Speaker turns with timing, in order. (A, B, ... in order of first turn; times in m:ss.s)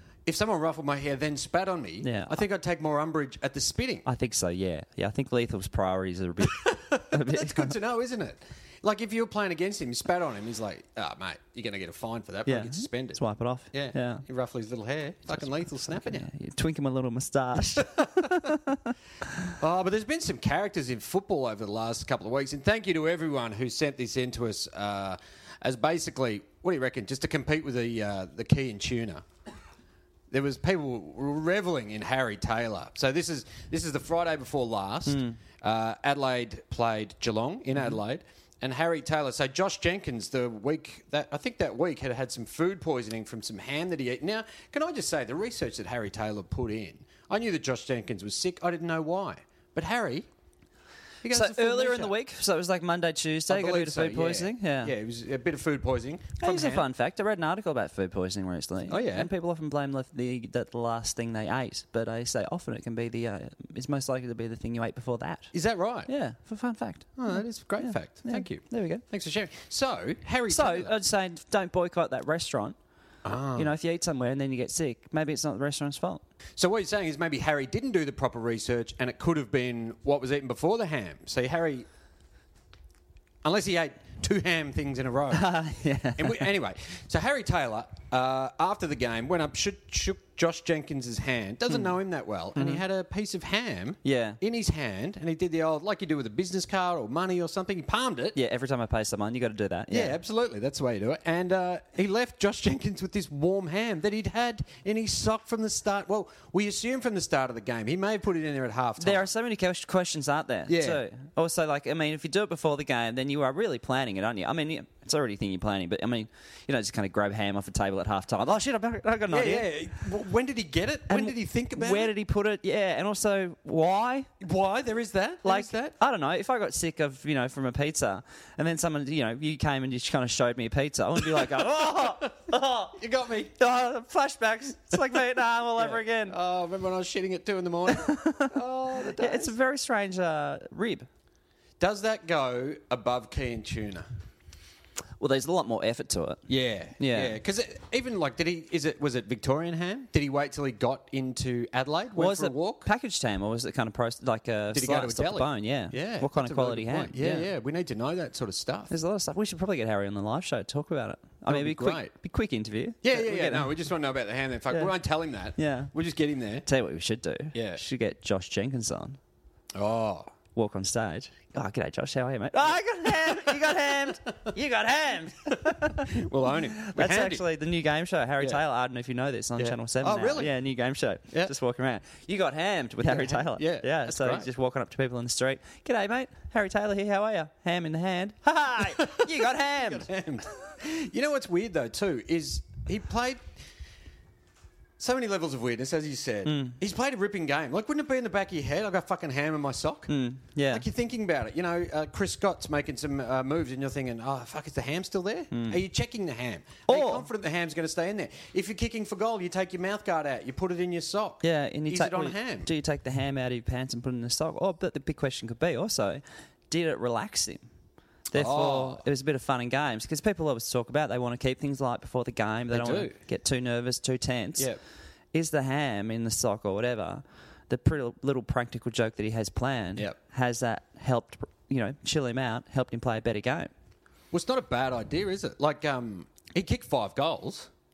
0:00.2-0:04.1 A
0:02.0-0:02.4 B
0:04.1-0:07.8 B
0:06.4-0:13.2 A
0:12.5-0:14.2 B
0:13.7-0:16.3 A
0:15.4-0:19.5 B
0:17.8-0:18.5 A
0:19.6-0:29.2 A
0:30.3-0:50.3 A
0:35.1-0:35.4 B
0:51.2-0:52.2 A
0:51.3-0:54.9 B
0:53.5-0:56.9 A
0:56.4-1:05.5 B
0:58.9-0:59.3 A
1:05.5-1:06.1 A
1:06.1-1:09.0 B
1:07.2-1:10.9 A
1:10.5-1:12.8 B
1:13.2-1:13.7 A
1:13.6-1:16.2 B
1:16.6-1:21.9 A
1:23.4-1:25.5 A
1:25.3-1:26.5 B
1:26.2-1:38.4 A
1:32.6-1:32.8 B
1:34.0-1:34.4 B
1:38.4-1:40.2 B
1:39.9-1:49.3 A
1:49.0-1:59.7 B
1:50.7-1:51.0 A
1:59.3-2:02.1 A
2:01.1-2:04.3 B
2:04.4-2:06.0 A
2:05.4-2:13.0 B
2:11.3-2:12.3 A
2:13.0-2:13.5 A
2:13.6-2:16.4 B
2:15.8-2:19.5 A
2:17.9-2:18.6 B
2:19.2-2:21.1 B
2:21.8-2:24.1 A
2:25.2-2:26.5 B
2:26.5-2:32.9 A
2:27.0-2:27.4 B
2:32.2-2:37.5 B
2:34.7-2:38.9 A
2:38.9-2:43.7 B
2:41.5-2:42.1 A
2:43.0-2:46.7 A
2:45.6-2:45.9 B
2:46.7-2:49.2 B
2:47.5-2:47.8 A
2:49.7-2:50.3 A
2:50.6-2:56.2 B
2:53.2-2:53.8 A
2:55.6-2:57.4 A
2:56.7-3:10.1 B
2:59.6-3:00.5 A
3:03.0-3:04.5 A
3:08.8-3:13.5 A
3:15.0-3:20.1 A
3:16.4-3:16.8 B
3:20.1-3:20.8 B
3:20.7-3:32.7 A
3:25.5-3:25.8 B
3:26.9-3:27.3 B
3:31.4-3:37.6 B
3:38.3-3:44.7 B
3:38.3-3:39.0 A
3:42.7-3:43.2 A
3:45.3-3:53.7 B
3:54.3-3:57.7 A